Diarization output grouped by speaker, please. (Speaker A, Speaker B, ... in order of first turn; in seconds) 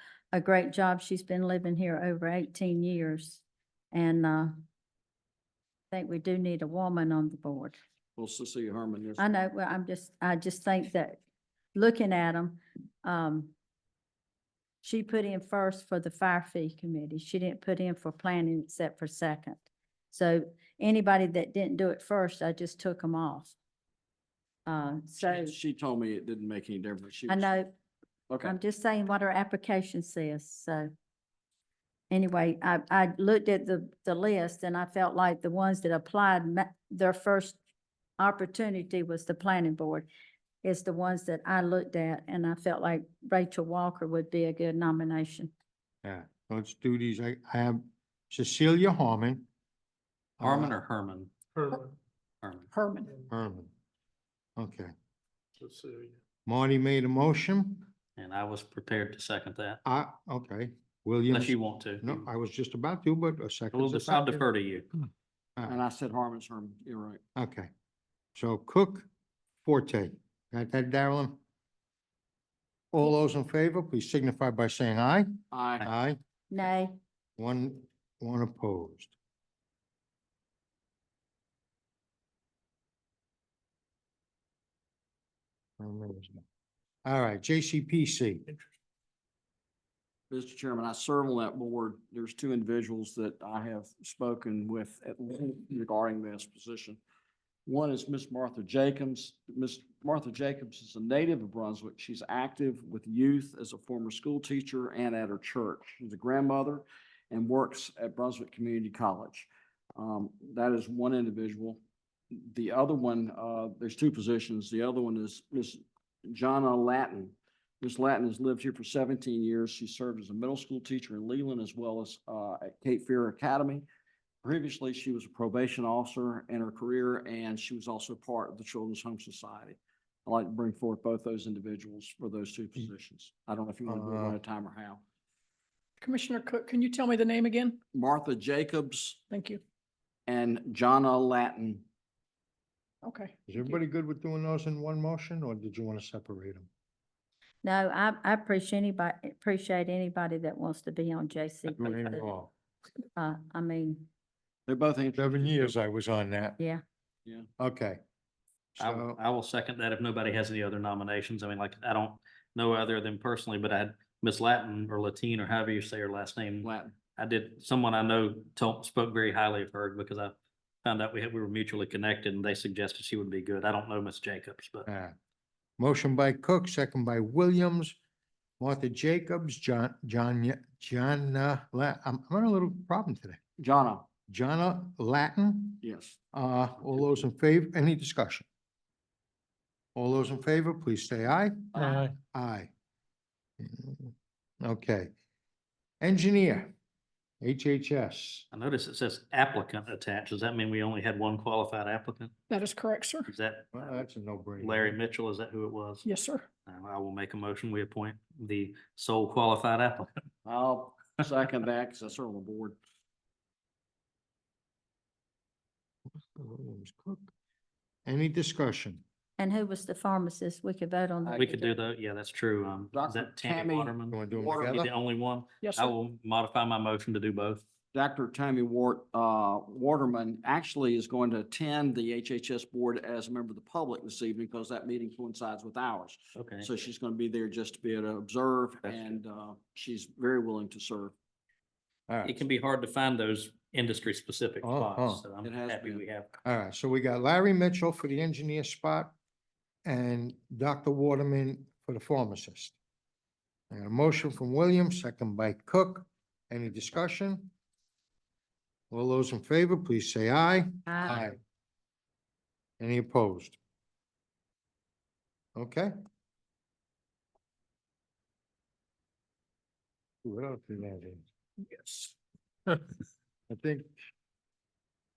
Speaker A: 0.3-4.6, 5.9-7.8, 9.2-11.2, 11.7-13.5, 14.8-23.6, 24.7-25.5, 27.3-27.7, 28.4-30.9, 32.1-37.6, 38.2-40.1, 40.6-45.5, 76.5-77.0, 147.6-152.3, 153.2-154.1, 219.4-221.6, 260.9-261.2
Speaker B: 8.2-9.3, 25.2-27.6, 28.3-28.6, 65.7-67.2, 75.5-75.9, 90.3-97.0, 97.7-111.8, 112.3-123.9, 124.4-135.0, 137.9-139.2, 140.3-141.8, 154.7-155.7, 166.6-166.9, 183.6-184.1, 185.8-186.2, 186.9-187.2, 191.7-192.1, 210.4-212.8, 221.2-221.7, 222.9-224.8, 227.9-241.1, 245.4-246.0
Speaker C: 46.0-49.5, 50.4-50.8, 53.3-53.7, 54.6-54.9, 56.5-57.9, 59.9-64.5, 67.4-67.7, 68.4-69.1, 69.7-71.4, 72.9-76.2, 77.4-79.2, 85.8-86.4, 87.0-88.4, 133.9-134.4, 143.5-146.7, 151.7-152.5, 155.2-156.6, 157.6-158.0, 158.8-159.2, 174.9-175.2, 175.8-178.0, 178.6-183.4, 184.3-188.5, 189.9-192.7, 193.6-195.1, 196.0-196.7, 197.4-198.5, 203.7-205.0, 216.3-217.3, 218.1-219.0, 224.1-224.9, 242.1-242.4, 244.6-245.2, 246.4-249.2, 249.8-252.8, 253.7-257.5, 258.9-261.4, 262.8-263.6, 265.6-265.9, 270.2-271.2, 273.5-274.0
Speaker D: 50.4-51.6, 52.4-52.7, 58.2-59.8, 61.3-62.2, 63.7-64.9, 158.8-174.9, 198.5-202.3, 203.3-203.7, 204.6-206.1, 206.7-210.1, 221.3-227.6, 236.3-236.7, 242.2-246.3
Speaker E: 52.7-53.2, 136.0-137.8, 139.3-139.6, 143.0-143.4, 202.5-203.3, 206.1-206.5, 225.6-225.9